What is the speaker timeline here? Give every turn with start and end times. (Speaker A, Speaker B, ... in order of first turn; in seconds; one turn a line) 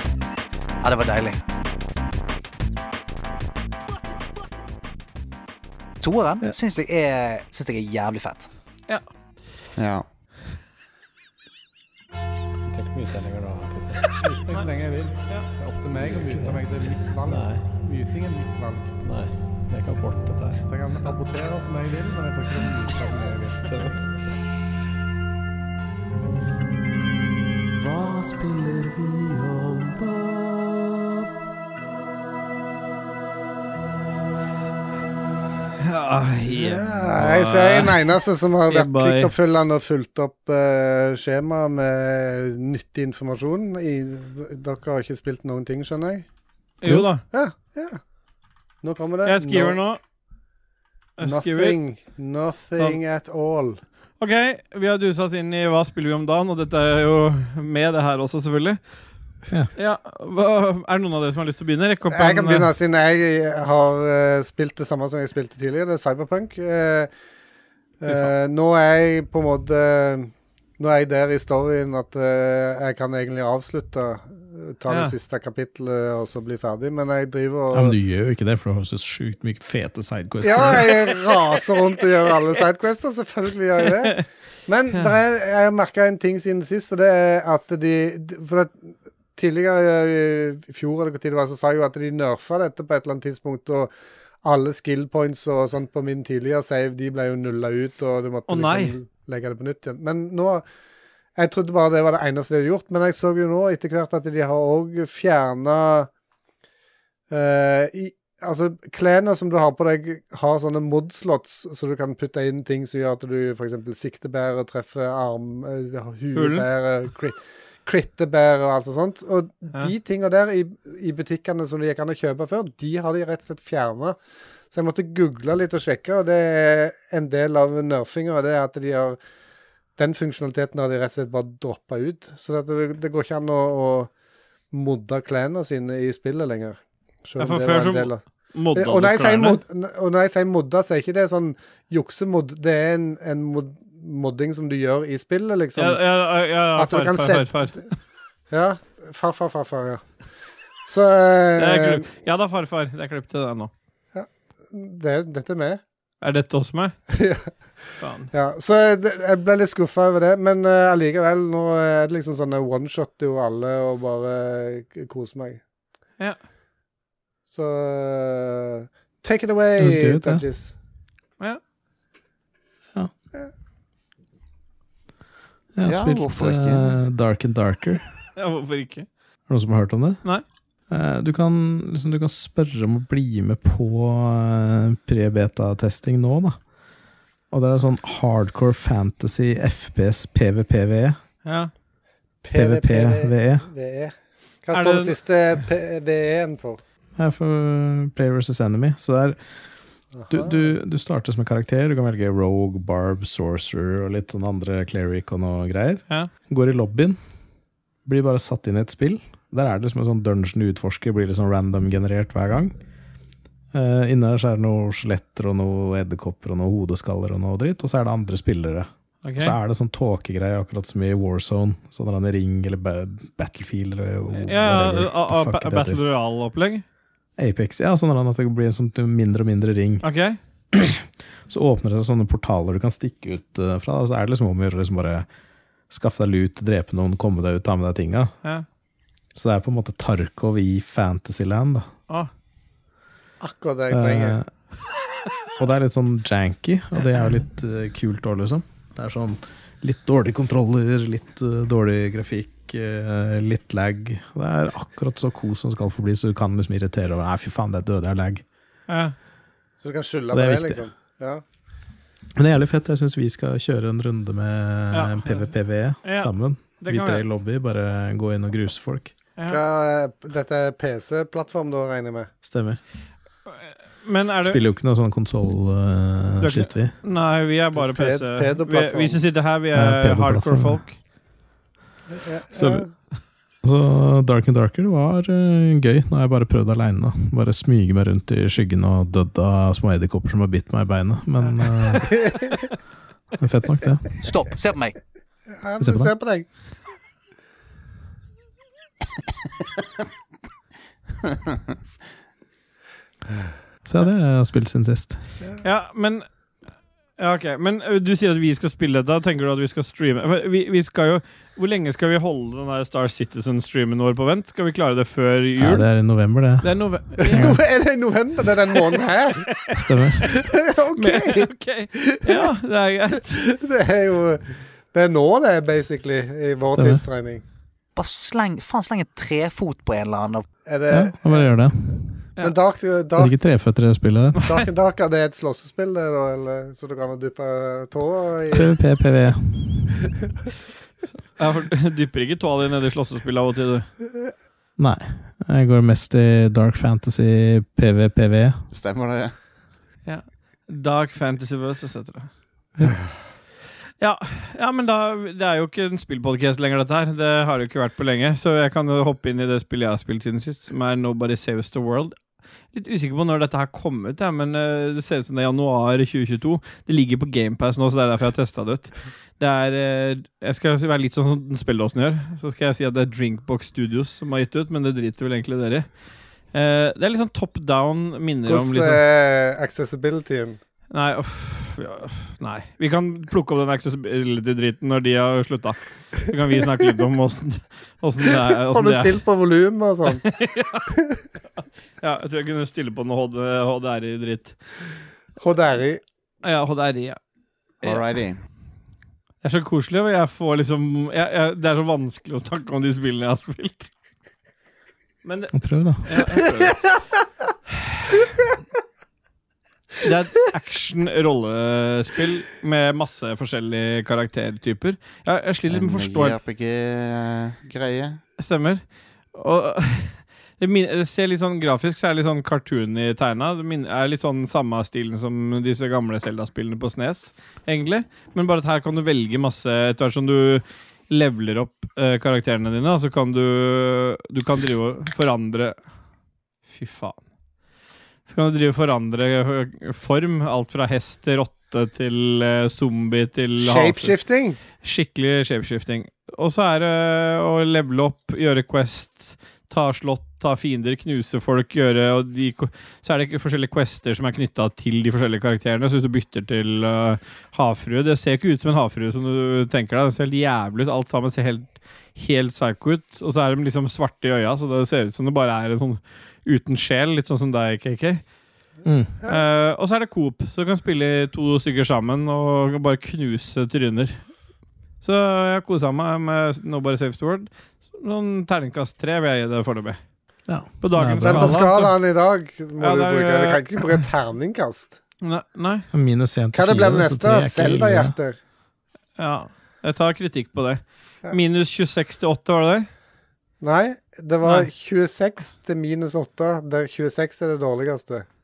Speaker A: 0.8-1.4
Speaker A: 6.0-8.5
Speaker B: 9.8-10.1
Speaker C: 12.7-14.1
Speaker D: 14.2-18.9
Speaker C: 16.0-17.6
Speaker C: 19.0-20.6
Speaker D: 20.7-23.7
Speaker C: 23.6-24.0
Speaker C: 27.9-29.9
Speaker E: 35.8-39.3
Speaker D: 36.5-46.2
Speaker E: 46.8-47.2
Speaker D: 47.3-48.0
Speaker D: 48.8-49.8
Speaker E: 49.2-50.0
Speaker E: 51.2-51.8
Speaker D: 51.2-53.8
Speaker E: 54.2-58.8
Speaker E: 59.8-62.7
Speaker D: 62.1-67.1
Speaker D: 68.0-77.9
Speaker C: 77.7-81.1
Speaker D: 80.4-93.9
Speaker D: 94.4-100.6
Speaker E: 98.5-98.9
Speaker D: 101.3-106.1
Speaker D: 107.3-124.2
Speaker E: 116.3-116.7
Speaker D: 124.7-129.2
Speaker D: 130.0-134.1
Speaker D: 134.7-138.2
Speaker E: 137.4-139.6
Speaker D: 138.7-146.0
Speaker E: 145.8-147.9
Speaker D: 146.8-147.7
Speaker D: 148.5-150.0
Speaker D: 150.8-152.0
Speaker E: 151.6-153.7
Speaker D: 154.1-155.8
Speaker E: 156.2-157.0
Speaker D: 157.1-157.5
Speaker E: 158.0-158.3
Speaker D: 158.3-165.6
Speaker D: 167.5-170.7
Speaker C: 169.8-170.4
Speaker C: 175.8-178.1
Speaker B: 175.8-176.9
Speaker E: 178.4-179.1
Speaker C: 179.5-180.2
Speaker C: 180.9-186.6
Speaker C: 187.5-191.2
Speaker E: 191.4-191.7
Speaker D: 192.4-196.8
Speaker C: 192.5-193.7
Speaker E: 194.7-195.1
Speaker C: 197.2-199.4
Speaker D: 200.1-200.7
Speaker C: 200.3-207.2
Speaker C: 208.0-212.7
Speaker C: 213.7-226.0
Speaker E: 219.2-219.5
Speaker E: 224.3-226.8
Speaker C: 227.4-230.0
Speaker E: 230.0-230.4
Speaker C: 230.7-235.3
Speaker C: 235.9-238.3
Speaker C: 239.3-241.9
Speaker D: 243.4-244.4
Speaker C: 243.9-244.5
Speaker C: 245.6-258.4
Speaker E: 258.9-259.1
Speaker D: 259.8-261.4
Speaker C: 260.3-260.8
Speaker C: 262.4-269.1
Speaker E: 264.9-265.5
Speaker E: 266.0-267.2
Speaker D: 269.5-272.3
Speaker C: 272.4-272.8
Speaker E: 273.5-274.6
Speaker C: 274.4-276.9
Speaker E: 276.4-280.9
Speaker D: 277.9-279.2
Speaker C: 279.7-280.8
Speaker D: 282.1-282.9
Speaker C: 282.5-282.8
Speaker C: 283.6-292.3
Speaker D: 292.2-292.6
Speaker C: 293.4-294.1
Speaker A: 294.2-295.0
Speaker D: 295.5-296.4
Speaker C: 295.8-296.1
Speaker C: 303.8-305.2
Speaker E: 305.6-306.2
Speaker E: 307.2-315.9
Speaker C: 315.6-317.6
Speaker E: 316.6-317.6
Speaker D: 317.2-319.5
Speaker C: 319.7-320.3
Speaker D: 320.5-322.5
Speaker E: 321.0-323.4
Speaker D: 323.3-327.4
Speaker C: 326.7-327.0
Speaker A: 327.9-330.5
Speaker D: 330.6-331.5
Speaker C: 330.9-332.0
Speaker D: 332.4-333.3
Speaker C: 333.2-334.4
Speaker D: 334.4-338.7
Speaker C: 338.5-339.9
Speaker E: 341.4-343.9
Speaker C: 344.8-348.6
Speaker B: 348.7-349.3
Speaker E: 350.1-352.3
Speaker E: 354.0-362.1
Speaker E: 362.7-375.9
Speaker E: 376.5-379.0
Speaker D: 378.5-380.6
Speaker E: 380.9-389.2
Speaker D: 388.6-390.2
Speaker E: 390.1-390.9
Speaker E: 392.0-394.6
Speaker D: 395.4-396.0
Speaker E: 396.4-397.2
Speaker B: 397.8-398.4
Speaker E: 399.4-403.9
Speaker E: 405.2-405.5
Speaker C: 405.5-406.1
Speaker E: 406.0-406.9
Speaker E: 407.8-408.1
Speaker E: 410.0-416.4
Speaker B: 415.7-418.2
Speaker E: 418.4-435.8
Speaker E: 436.7-437.2
Speaker E: 438.3-444.1
Speaker D: 443.6-444.6
Speaker E: 444.8-468.2
Speaker C: 468.8-469.1
Speaker E: 469.3-474.2
Speaker E: 475.0-480.0
Speaker C: 480.5-481.6
Speaker E: 480.8-481.9
Speaker D: 481.2-485.0
Speaker E: 482.8-483.9
Speaker E: 485.2-485.9
Speaker C: 485.9-488.1
Speaker D: 486.5-488.4
Speaker E: 489.2-492.9
Speaker D: 493.6-498.2